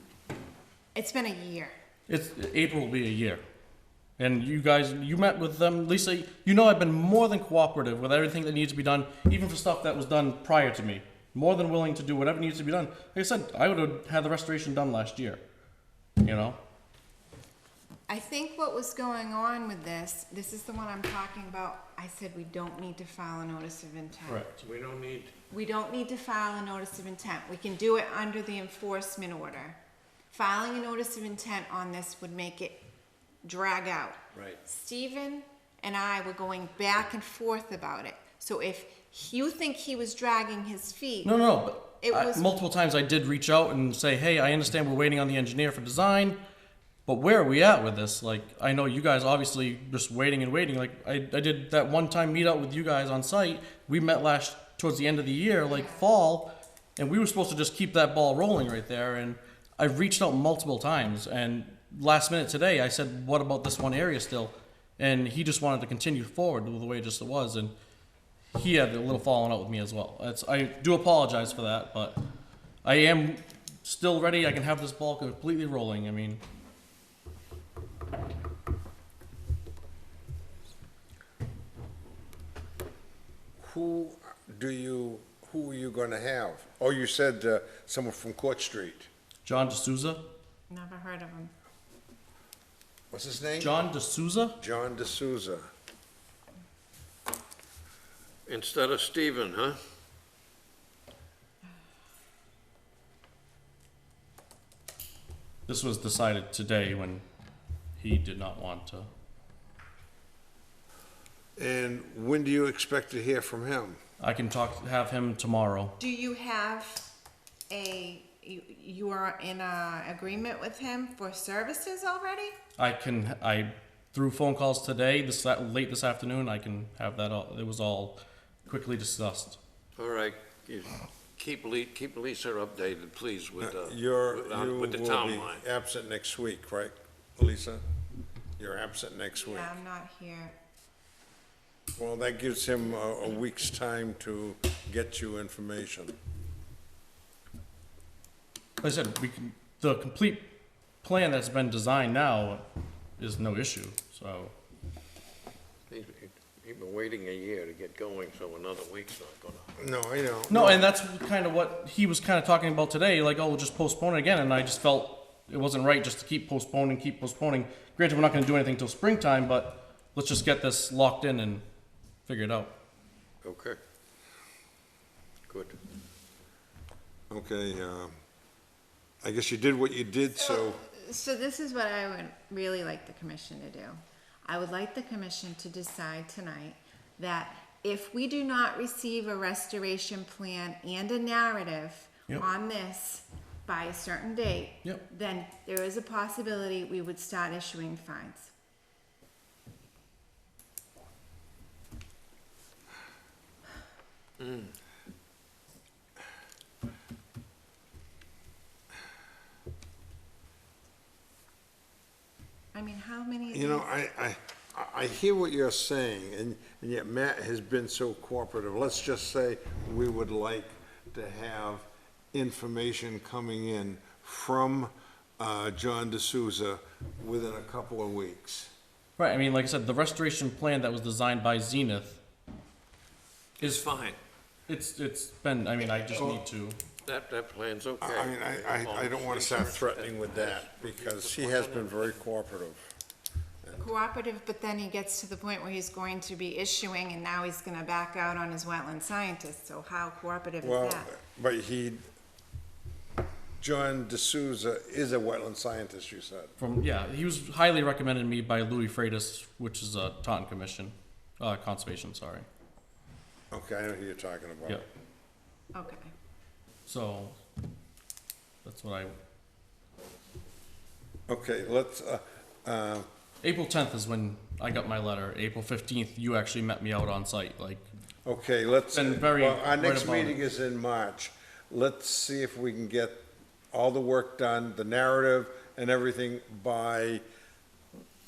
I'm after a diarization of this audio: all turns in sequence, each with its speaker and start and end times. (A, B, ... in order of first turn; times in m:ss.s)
0:01.0-0:01.7 A
0:02.1-0:03.4 B
0:04.2-0:15.4 B
0:16.2-0:16.6 B
0:18.1-0:24.5 A
0:24.3-0:24.6 B
0:24.6-0:25.3 C
0:25.5-0:29.8 A
0:30.3-0:32.8 A
0:33.4-0:41.4 A
0:41.2-0:46.4 B
0:42.0-0:42.5 A
0:47.1-1:07.7 B
0:55.7-0:56.0 A
1:08.5-1:12.2 B
1:12.8-1:16.4 B
1:23.6-1:29.1 D
1:29.4-1:30.2 B
1:30.7-1:31.5 A
1:33.1-1:33.8 D
1:33.6-1:34.6 B
1:34.6-1:35.7 D
1:38.5-1:39.8 C
1:45.7-1:47.2 B
1:48.0-1:49.1 B
1:51.6-1:54.0 D
1:54.2-1:56.0 B
1:56.0-1:57.1 A
1:57.7-2:02.6 A
2:02.8-2:09.6 B
2:10.0-2:15.6 C
2:13.6-2:17.8 D
2:18.6-2:19.7 D
2:19.4-2:20.5 A
2:22.0-2:26.2 D
2:28.8-2:30.5 B
2:31.0-2:32.6 B
2:33.2-2:34.5 B
2:35.9-2:39.7 C
2:39.8-2:40.9 D
2:40.5-2:51.6 B
2:52.3-2:52.7 B
2:53.4-2:53.8 C
2:55.5-2:55.8 C
2:57.3-2:58.1 D
2:59.2-3:00.8 D
3:00.4-3:18.5 A
3:24.4-3:24.7 C
3:32.7-3:33.9 A
3:33.5-3:48.7 D
3:49.2-3:52.2 B
3:53.6-3:54.2 C
3:53.6-3:53.9 B
3:54.7-3:56.8 B
3:57.0-4:02.2 C
3:58.0-4:02.8 D
4:03.8-4:11.1 A
4:10.6-4:12.0 D
4:13.6-4:16.5 D
4:16.6-4:22.5 B
4:23.5-4:24.8 D
4:25.7-4:26.1 A
4:26.9-4:27.4 B
4:28.6-4:29.1 B
4:31.3-4:33.1 D
4:33.4-4:37.8 B
4:38.2-4:47.2 D
4:38.9-4:40.4 B